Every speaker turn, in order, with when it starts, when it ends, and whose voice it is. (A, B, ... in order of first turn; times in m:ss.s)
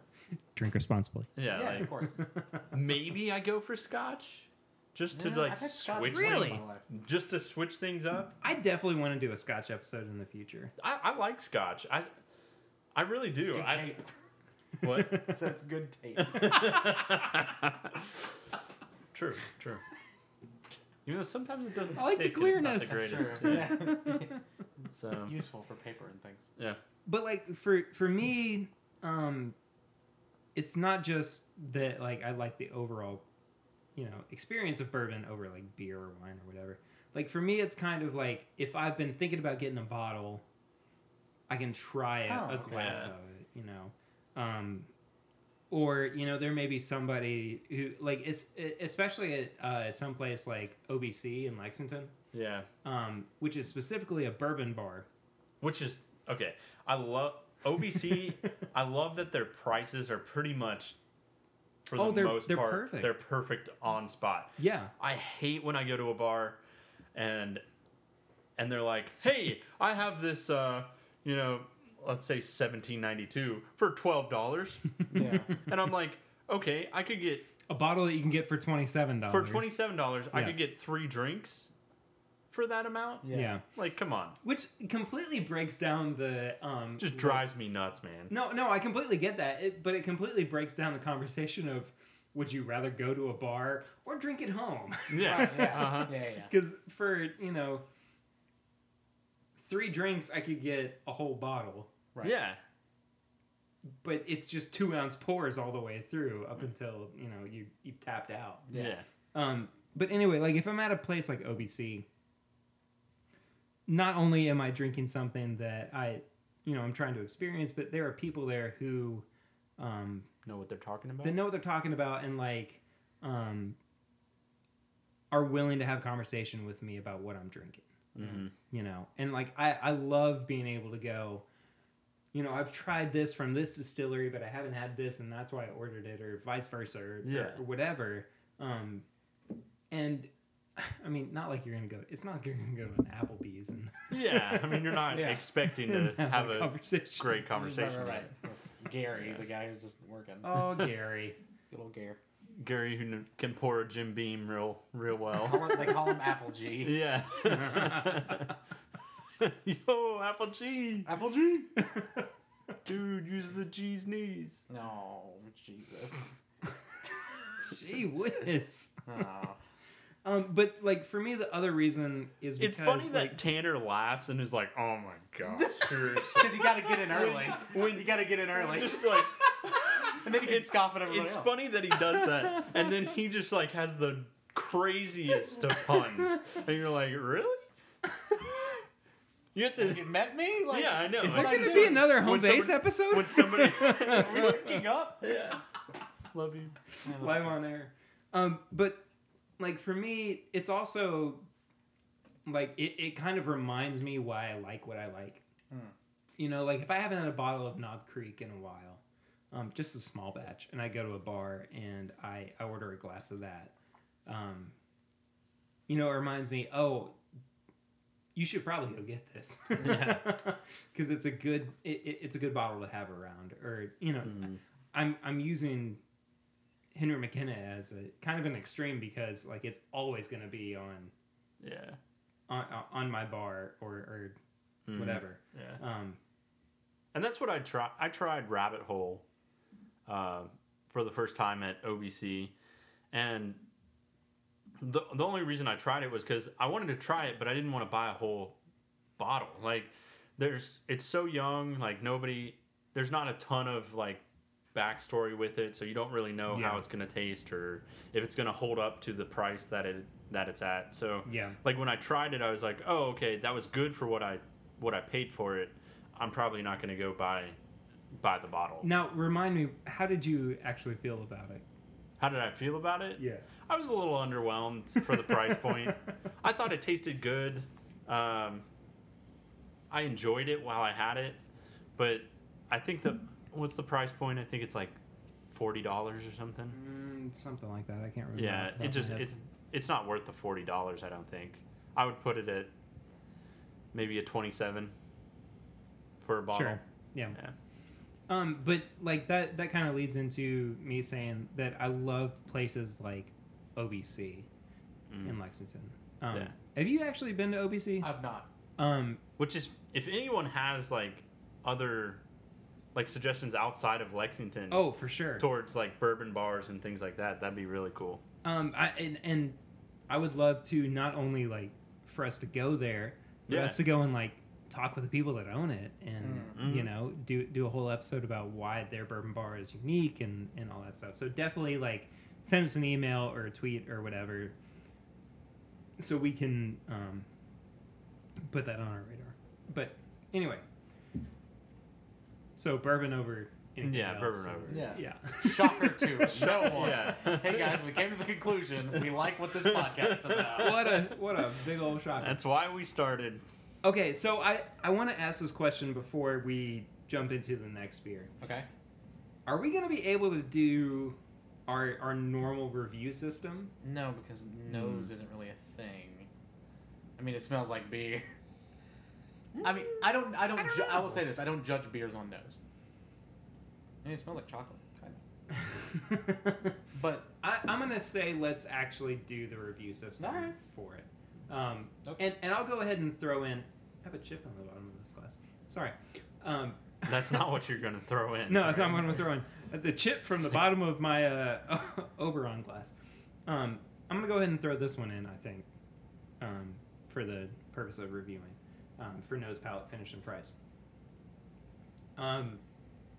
0:00.6-0:01.4 A
0:01.4-0:01.9 B
0:01.5-0:02.2 C
0:02.7-0:08.4 B
0:05.1-0:06.9 C
0:06.1-0:06.6 A
0:08.4-0:10.7 A
0:10.8-0:12.1 B
0:12.9-0:13.9 B
0:13.5-0:14.1 C
0:14.8-0:15.3 B
0:14.8-0:15.4 A
0:15.1-0:16.8 C
0:16.3-0:18.0 B
0:19.1-0:19.8 B
0:21.0-0:24.0 B
0:22.0-0:24.3 A
0:22.8-0:24.3 C
0:24.9-0:25.4 B
0:25.2-0:26.5 C
0:27.1-0:29.6 A
0:30.6-0:33.2 A
0:34.0-0:40.4 A
0:41.5-0:44.9 A
0:42.3-0:43.1 C
0:42.7-0:43.1 B
0:45.7-0:52.1 A
0:52.3-0:52.7 B
0:52.8-0:55.1 A
0:55.6-1:01.0 B
1:01.9-1:06.6 B
1:01.9-1:03.1 A
1:04.6-1:04.9 A
1:07.1-1:07.6 B
1:08.6-1:17.5 B
1:15.1-1:15.6 C
1:15.1-1:15.4 A
1:17.7-1:19.8 A
1:19.3-1:21.7 B
1:20.3-1:20.6 A
1:22.5-1:24.4 B
1:23.2-1:23.6 C
1:23.3-1:23.6 A
1:24.4-1:27.5 A
1:27.0-1:28.3 B
1:28.3-1:37.8 A
1:35.1-1:36.2 B
1:35.2-1:36.5 C
1:39.6-1:41.9 A
1:42.2-1:42.6 B
1:44.0-1:48.7 A
1:48.7-1:49.0 C
1:48.7-1:49.1 B
1:49.3-1:52.1 A
1:53.9-1:59.3 A
1:59.8-2:00.3 A
2:00.4-2:01.4 B
2:01.2-2:03.8 A
2:05.3-2:11.4 A
2:08.2-2:08.5 B
2:12.3-2:19.0 A
2:17.2-2:17.6 B
2:19.9-2:27.4 A
2:24.1-2:28.3 B
2:25.1-2:25.4 C
2:27.5-2:30.7 C
2:30.4-2:31.4 A
2:31.7-2:32.2 C
2:32.6-2:36.2 B
2:35.4-2:37.0 C
2:36.8-2:38.5 B
2:37.5-2:38.2 A
2:39.4-2:41.1 B
2:41.0-2:41.7 C
2:42.8-2:44.6 B
2:44.7-2:46.3 C
2:47.6-2:49.2 A
2:49.1-2:49.6 C
2:50.2-2:53.4 A
2:52.6-3:07.7 B
2:55.5-3:01.5 C
3:09.6-3:10.1 B
3:09.8-3:12.1 C
3:10.7-3:15.6 B
3:11.2-3:14.5 A
3:13.9-3:15.3 C
3:16.3-3:16.8 B
3:17.0-3:19.0 A
3:17.0-3:17.6 C
3:19.6-3:21.5 A
3:22.5-3:25.4 A
3:26.4-3:33.7 A
3:34.2-3:34.7 A
3:35.9-3:37.2 A
3:38.4-3:46.0 A
3:39.8-3:40.3 B
3:44.2-3:44.6 B
3:46.9-3:51.1 A
3:51.6-3:52.0 B
3:52.5-3:54.4 A
3:54.9-3:55.8 B
3:54.9-3:56.2 A
3:57.1-3:59.2 B
4:00.1-4:02.5 B
4:03.1-4:03.6 B
4:04.8-4:08.6 B
4:09.2-4:14.2 B
4:14.7-4:27.6 B
4:16.5-4:16.8 A
4:21.2-4:21.6 A
4:28.1-4:28.9 B
4:28.8-4:31.6 A
4:32.2-4:38.6 B
4:33.2-4:33.4 A
4:35.5-4:35.9 A
4:39.9-4:41.4 B
4:42.0-4:45.0 B
4:45.5-4:46.8 B
4:46.7-4:49.4 A
4:48.4-4:52.7 B
4:53.9-4:54.9 B
4:56.2-4:56.8 B
4:56.5-4:57.4 A
4:58.3-5:04.5 A
5:05.1-5:05.4 B
5:05.2-5:08.1 A
5:08.0-5:08.5 C
5:08.8-5:09.2 A
5:09.4-5:12.2 B
5:12.9-5:14.9 B
5:14.7-5:15.5 A
5:15.4-5:18.2 B
5:18.4-5:19.6 A
5:20.1-5:34.5 A
5:23.5-5:23.8 B
5:26.2-5:26.6 C
5:26.6-5:26.9 B
5:36.0-5:37.3 A
5:38.4-5:40.6 A
5:42.6-5:46.7 A
5:43.8-5:45.0 B
5:44.7-5:51.0 C
5:46.3-5:47.9 B
5:49.6-5:50.9 B
5:50.5-5:52.4 A
5:52.2-5:53.4 B
5:53.8-5:58.3 A
5:58.4-5:58.7 C
5:59.5-6:03.7 A
6:03.8-6:06.3 C
6:04.7-6:05.1 B
6:07.2-6:08.3 C
6:09.6-6:12.6 C
6:14.0-6:15.2 C
6:15.5-6:16.8 A
6:16.9-6:17.3 C
6:17.4-6:27.4 A
6:20.2-6:20.6 C
6:27.1-6:29.2 B
6:28.5-6:32.9 A
6:33.5-6:35.6 A
6:36.4-6:40.5 A
6:42.2-6:42.6 A